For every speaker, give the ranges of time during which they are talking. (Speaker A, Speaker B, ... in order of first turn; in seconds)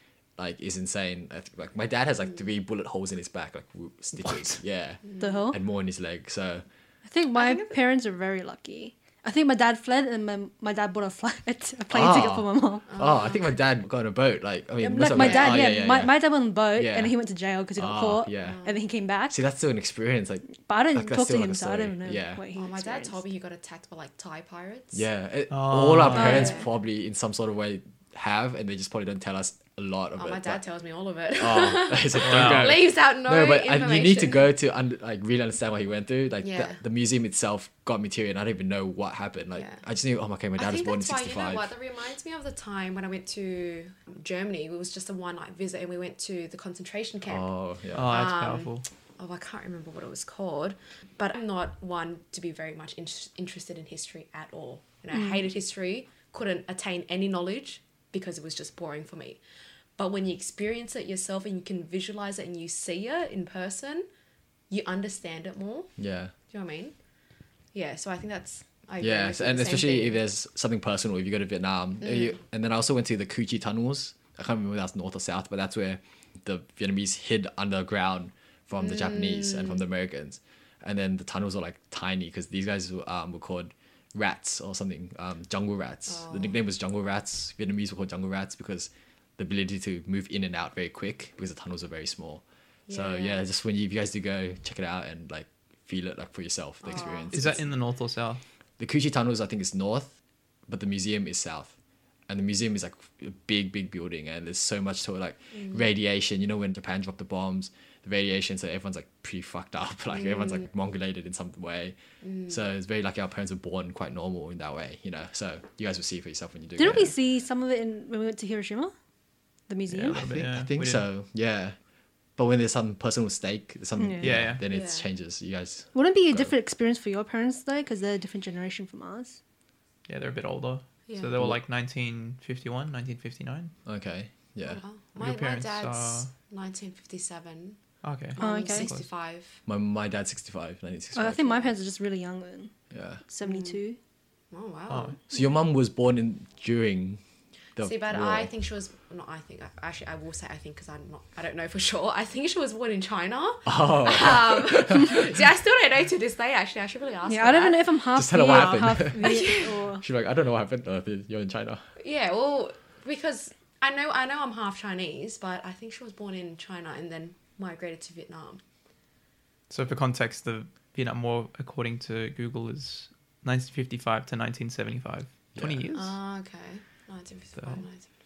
Speaker A: 0.4-6.6, 11.9-16.2, 16.7-17.1, 17.8-18.6, 19.3-22.4, 24.9-30.6, 31.4-41.7, 47.3-48.2, 66.0-66.3, 69.0-97.6, 98.8-100.1, 100.7-101.7, 102.3-112.0, 112.5-117.1, 120.1-121.8, 122.4-126.5, 133.8-134.8, 139.7-141.6, 142.9-143.2, 145.3-147.2, 147.8-148.5, 153.7-155.3, 158.1-159.5, 160.0-161.8, 175.5-175.8
Speaker B: 4.2-4.6, 25.5-26.5, 32.2-32.8, 47.9-48.8, 97.3-98.4, 119.9-121.0, 124.2-124.6, 130.1-133.7, 135.2-136.3, 138.0-139.1, 144.9-145.2, 169.7-176.1, 177.6-177.8
Speaker C: 5.2-5.6, 7.0-12.9, 14.8-19.4, 20.6-23.2, 26.1-26.6, 55.1-55.4, 116.8-118.9, 119.7-120.2, 124.0-124.3, 125.9-129.4, 138.4-138.9, 141.1-142.7, 143.3-144.0, 157.2-160.0
Speaker D: 7.3-7.8, 12.9-13.5, 15.1-15.7, 18.4-18.8, 22.5-25.0, 26.1-26.7, 30.2-34.5, 36.4-36.8, 40.5-47.5, 48.0-59.4, 60.0-64.1, 64.7-65.9, 66.5-66.9, 67.7-70.2, 72.0-72.3, 78.8-79.8, 86.1-86.5, 92.9-93.4, 96.8-97.4, 110.3-110.6, 112.2-112.5, 124.7-125.1, 131.1-131.3, 134.6-137.8, 138.3-139.6, 143.4-143.8, 144.5-145.2, 147.8-159.9, 162.0-168.6, 175.9-178.1